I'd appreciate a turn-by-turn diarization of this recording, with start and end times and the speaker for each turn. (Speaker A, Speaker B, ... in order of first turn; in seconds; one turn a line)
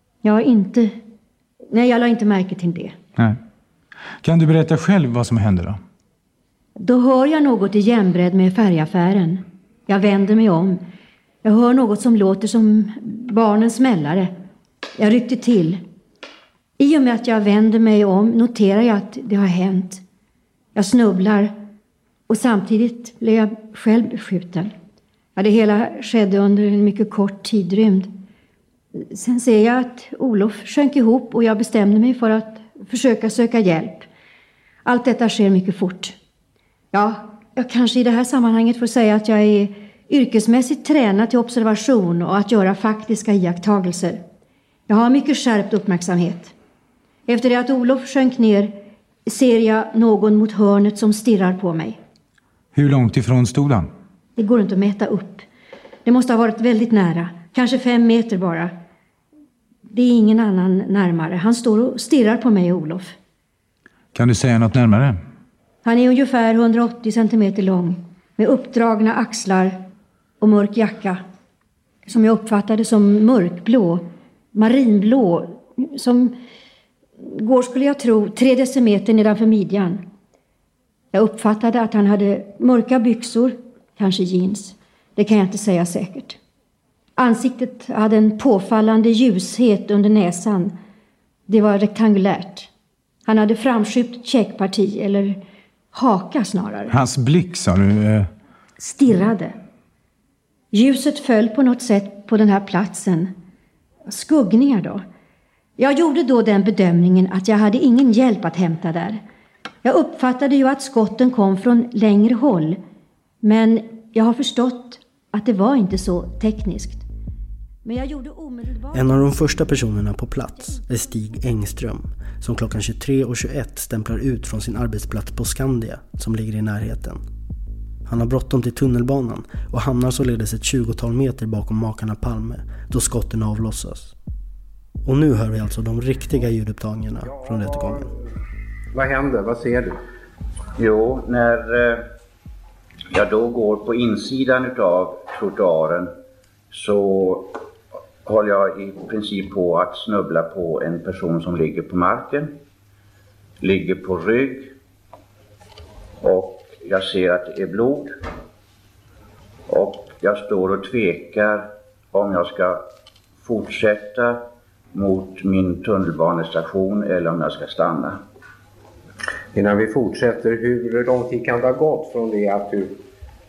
Speaker A: 0.2-1.0
Speaker A: 1.7-3.0
Speaker B: 4.2-5.8
Speaker A: 6.8-10.8
Speaker A: 11.4-14.3
Speaker A: 15.0-15.8
Speaker A: 16.8-20.0
Speaker A: 20.8-21.5
Speaker A: 22.3-24.7
Speaker A: 25.4-28.2
Speaker A: 28.9-34.1
Speaker A: 34.8-36.1
Speaker A: 36.9-44.2
Speaker A: 44.9-46.5
Speaker A: 47.3-52.0
Speaker B: 52.7-53.9
Speaker A: 54.4-55.5
Speaker A: 56.0-58.7
Speaker A: 59.9-63.1
Speaker B: 64.1-65.2
Speaker A: 65.8-69.8
Speaker A: 70.4-71.2
Speaker A: 72.0-76.4
Speaker A: 77.2-80.0
Speaker A: 81.1-86.4
Speaker A: 87.2-90.8
Speaker A: 91.5-92.7
Speaker A: 93.2-95.4
Speaker A: 95.9-96.9
Speaker B: 96.9-98.3
Speaker A: 98.8-99.5
Speaker A: 100.7-103.3
Speaker A: 104.0-105.0
Speaker A: 105.8-109.2
Speaker A: 109.8-112.8
Speaker A: 113.4-117.0
Speaker A: 117.8-119.4
Speaker C: 118.9-127.2
Speaker C: 128.1-134.1
Speaker C: 135.0-138.1
Speaker D: 138.9-140.0
Speaker E: 140.8-142.1
Speaker E: 143.1-146.1
Speaker E: 146.7-147.6
Speaker E: 148.2-152.5
Speaker E: 153.6-154.7
Speaker E: 156.2-158.2
Speaker E: 159.7-162.8
Speaker E: 163.4-164.4
Speaker E: 164.9-168.2
Speaker D: 169.5-173.0